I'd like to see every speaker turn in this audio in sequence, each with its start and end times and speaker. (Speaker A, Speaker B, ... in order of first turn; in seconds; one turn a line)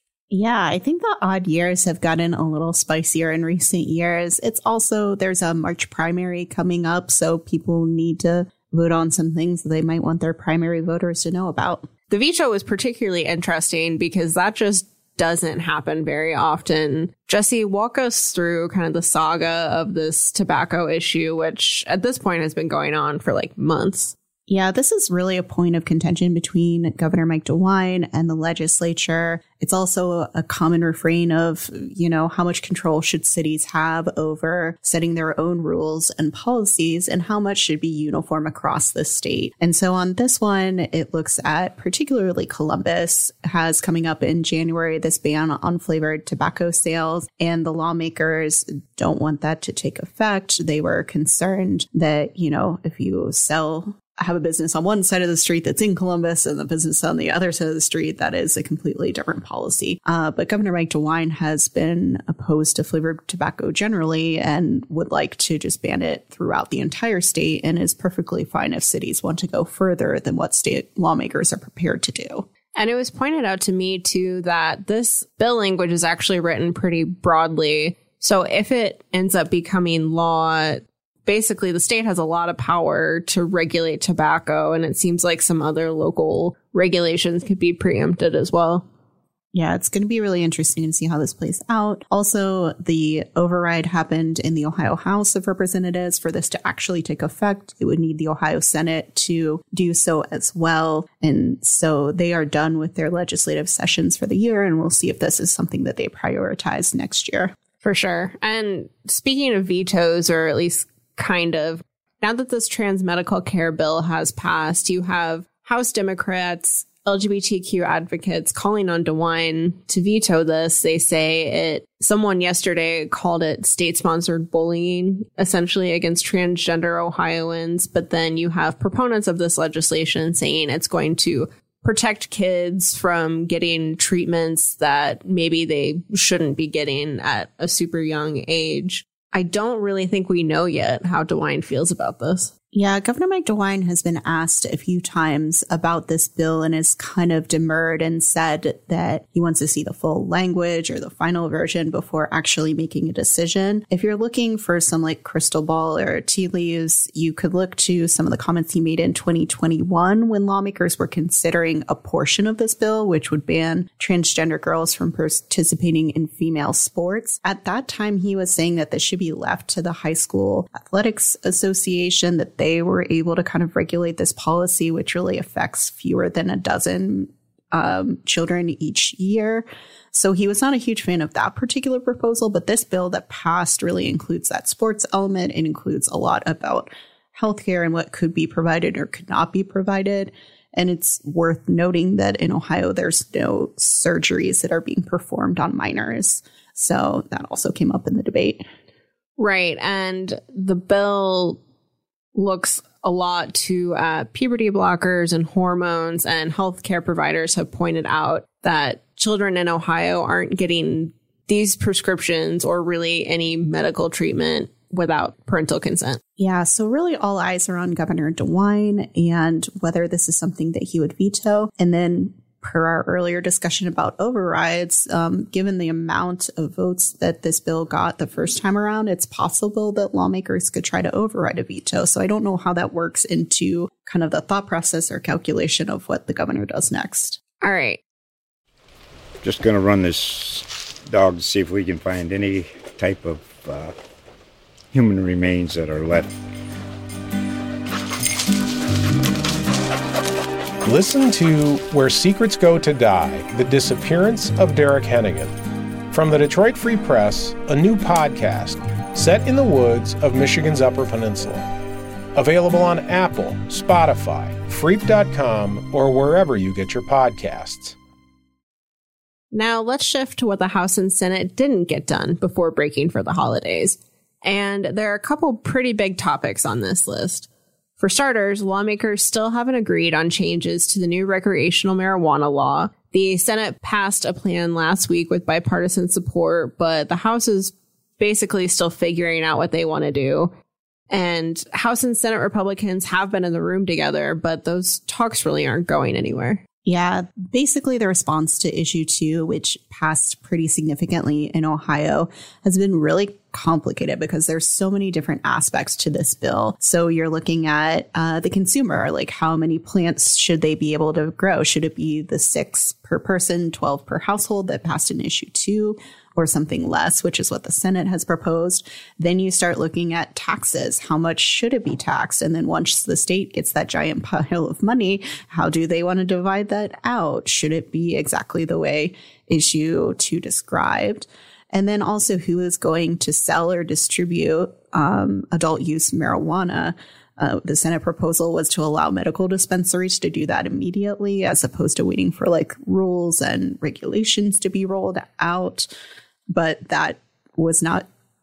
Speaker A: 0.3-11.9
Speaker B: 12.1-24.1
Speaker A: 24.5-72.5
Speaker B: 72.7-88.8
Speaker A: 89.5-107.5
Speaker B: 107.8-142.5
Speaker A: 142.7-198.6
Speaker B: 199.4-201.6
Speaker B: 202.3-216.2
Speaker A: 216.4-237.4
Speaker B: 237.6-238.0
Speaker C: 239.4-243.9
Speaker C: 244.9-246.3
Speaker D: 250.8-255.5
Speaker D: 256.1-261.7
Speaker D: 262.3-267.9
Speaker B: 269.5-290.5
Speaker B: 291.1-296.6
Speaker A: 296.8-345.9
Speaker A: 346.5-348.0